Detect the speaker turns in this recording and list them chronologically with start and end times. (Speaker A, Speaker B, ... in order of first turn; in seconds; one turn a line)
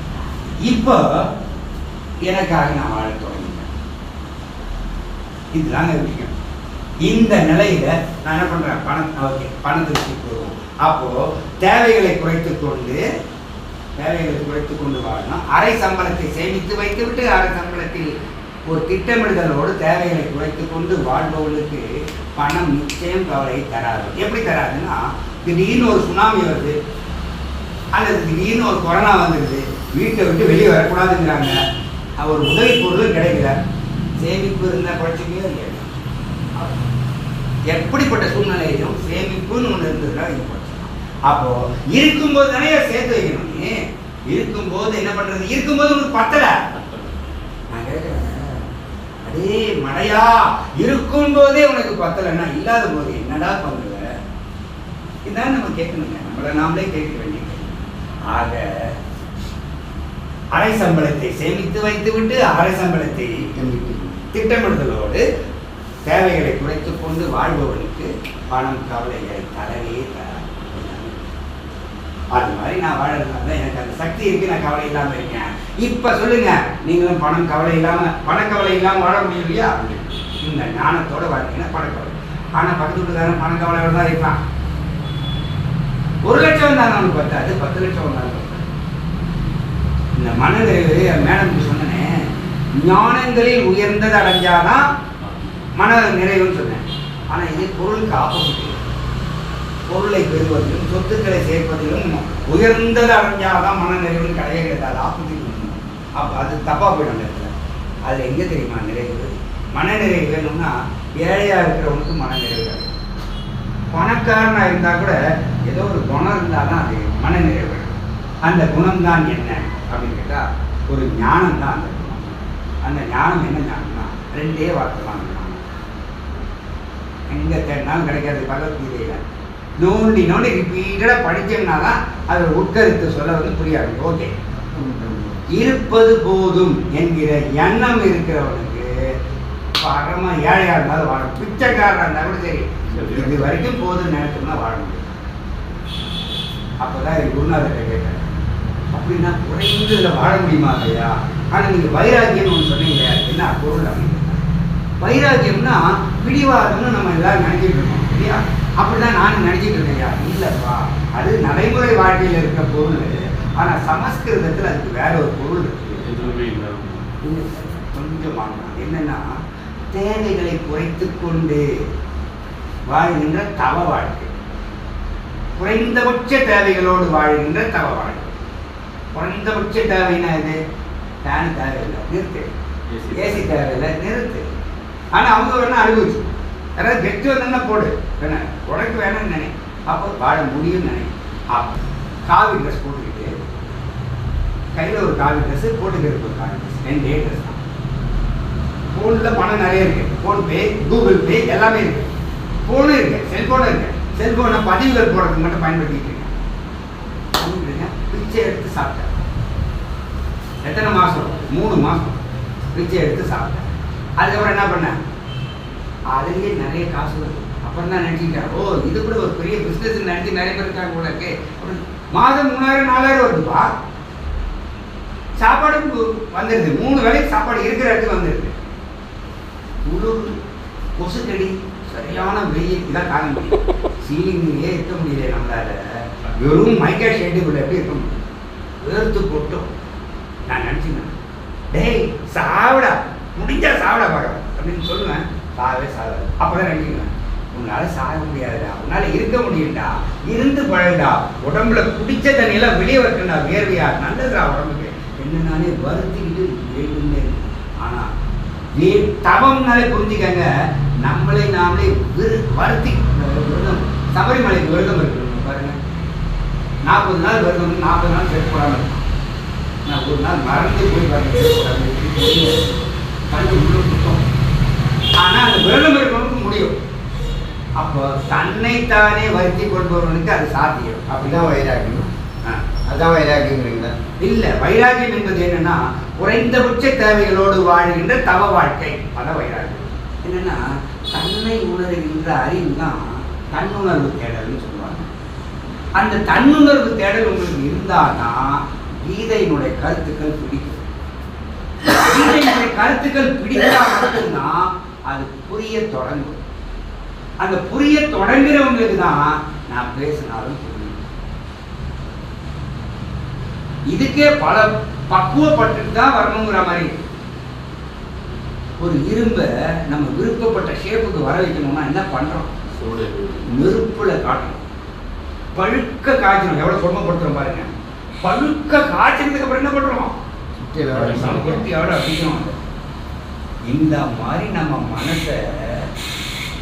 Speaker A: 0.6-1.0
Speaker A: 2.2-3.7
Speaker A: 5.5-6.3
Speaker A: 7.0-13.0
Speaker A: 14.0-18.1
Speaker A: 18.6-26.8
Speaker A: 27.9-31.6
Speaker A: 32.2-33.5
Speaker A: 34.2-35.9
Speaker A: 37.7-43.7
Speaker A: 44.3-46.6
Speaker B: 46.7-47.1
Speaker A: 47.7-48.6
Speaker A: 49.2-54.1
Speaker A: 55.2-58.9
Speaker A: 60.5-63.5
Speaker C: 63.6-64.2
Speaker A: 64.2-65.2
Speaker A: 66.0-71.3
Speaker A: 72.3-84.4
Speaker A: 86.2-88.7
Speaker A: 90.2-92.1
Speaker A: 92.8-94.9
Speaker B: 95.2-95.5
Speaker A: 95.8-98.8
Speaker A: 99.9-107.5
Speaker A: 108.0-112.9
Speaker A: 113.9-115.2
Speaker A: 115.7-125.6
Speaker A: 127.3-129.2
Speaker A: 129.8-134.3
Speaker C: 134.7-135.5
Speaker A: 135.5-138.9
Speaker A: 139.8-145.1
Speaker B: 142.9-143.5
Speaker A: 146.8-148.3
Speaker A: 148.9-154.4
Speaker A: 155.0-166.0
Speaker B: 165.9-167.1
Speaker A: 167.2-169.3
Speaker A: 169.9-171.7
Speaker A: 172.9-174.3
Speaker A: 175.6-178.3
Speaker A: 179.1-180.6
Speaker A: 181.2-182.5
Speaker B: 182.9-183.4
Speaker A: 183.1-184.5
Speaker A: 185.1-186.2
Speaker A: 186.8-193.3
Speaker A: 194.7-197.6
Speaker A: 198.9-202.1
Speaker A: 202.7-206.3
Speaker A: 207.3-209.1
Speaker A: 210.6-212.2
Speaker A: 212.7-215.0
Speaker A: 216.1-223.7
Speaker A: 225.4-228.6
Speaker A: 229.8-230.4
Speaker A: 231.0-238.1
Speaker A: 238.8-239.7
Speaker A: 240.5-241.2
Speaker A: 241.7-258.1
Speaker A: 258.7-260.5
Speaker A: 261.0-265.8
Speaker A: 266.8-269.1
Speaker A: 269.9-274.2
Speaker A: 275.2-276.8
Speaker A: 277.8-281.3
Speaker C: 281.1-282.1
Speaker C: 282.9-283.9
Speaker A: 284.2-295.1
Speaker A: 295.9-300.9
Speaker A: 301.9-306.4
Speaker A: 307.4-311.0
Speaker A: 313.9-317.0
Speaker A: 318.8-322.5
Speaker B: 322.8-323.4
Speaker A: 323.5-324.7
Speaker A: 325.5-327.7
Speaker A: 328.2-330.2
Speaker C: 330.6-331.6
Speaker B: 330.9-331.5
Speaker A: 331.0-332.5
Speaker A: 333.7-335.9